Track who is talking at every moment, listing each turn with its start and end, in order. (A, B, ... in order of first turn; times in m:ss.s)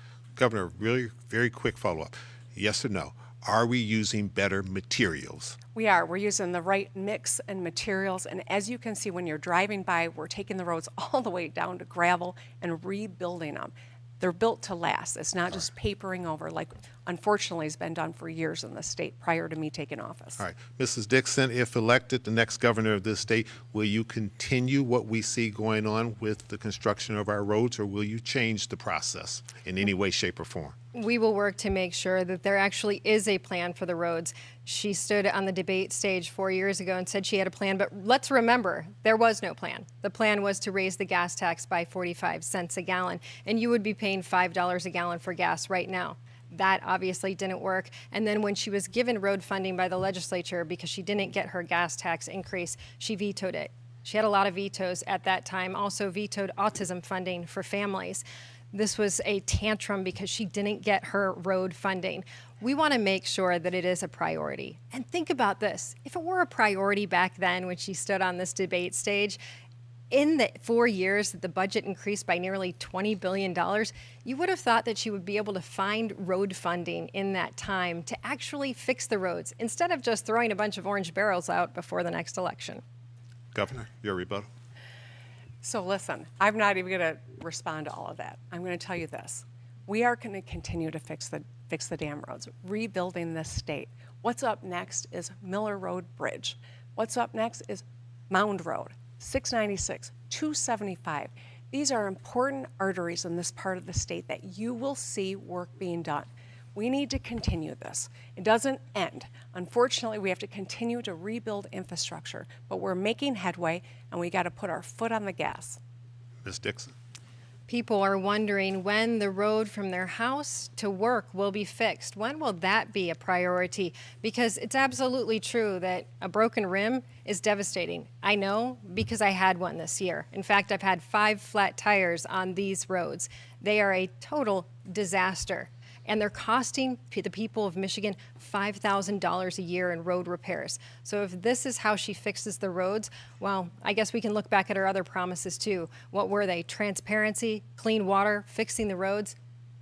0:00.4-0:05.6 A
0:05.8-0:20.4 B
0:20.4-0:30.8 A
0:30.9-1:09.4 C
1:10.1-1:22.8 C
1:23.5-1:24.5 A
1:25.6-1:55.8 B
1:56.4-1:56.9 A
1:57.7-2:29.4 C